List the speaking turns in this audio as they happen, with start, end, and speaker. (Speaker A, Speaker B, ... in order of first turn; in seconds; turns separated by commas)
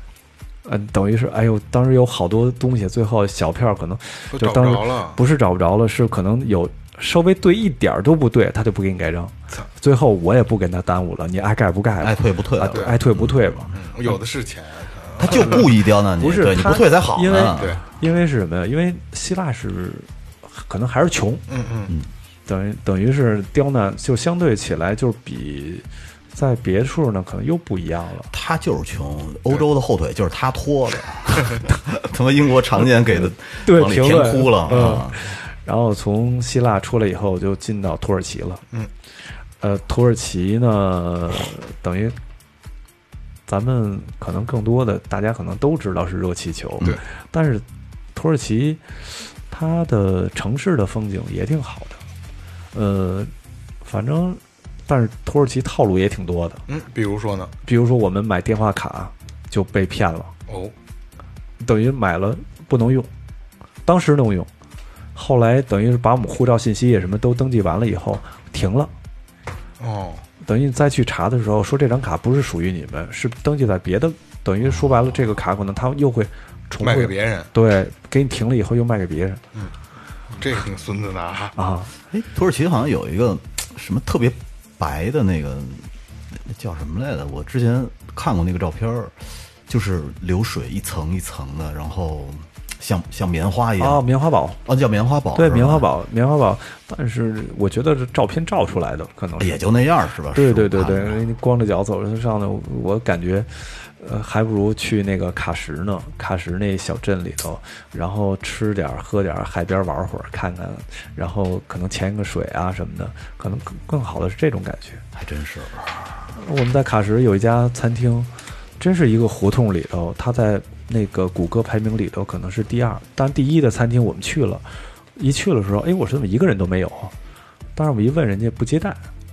Speaker A: 0.7-14.1, Speaker B: 4.3-5.2, Speaker C: 12.0-13.7, Speaker B: 13.7-15.7, Speaker C: 15.2-17.8, Speaker A: 15.3-21.4, Speaker B: 17.6-17.8, Speaker B: 21.5-21.9, Speaker A: 22.5-28.3, Speaker C: 28.3-35.3, Speaker A: 33.1-38.6, Speaker A: 39.6-42.2, Speaker A: 43.5-47.6, Speaker A: 48.1-52.0, Speaker A: 52.7-53.3, Speaker A: 53.8-56.6, Speaker B: 56.7-57.5, Speaker A: 57.6-60.3, Speaker B: 60.5-60.7, Speaker A: 61.6-63.1, Speaker A: 63.9-64.5, Speaker A: 65.2-68.9, Speaker B: 69.8-70.3, Speaker A: 70.4-79.4, Speaker B: 76.8-77.5, Speaker B: 80.4-81.5, Speaker A: 81.6-81.9, Speaker C: 82.1-89.2, Speaker C: 89.7-94.1, Speaker A: 93.8-94.6, Speaker C: 94.7-95.9, Speaker A: 95.3-99.6, Speaker C: 99.4-101.2, Speaker A: 100.3-115.0, Speaker C: 115.1-116.1, Speaker A: 116.3-124.7, Speaker A: 125.2-127.1, Speaker A: 127.8-129.0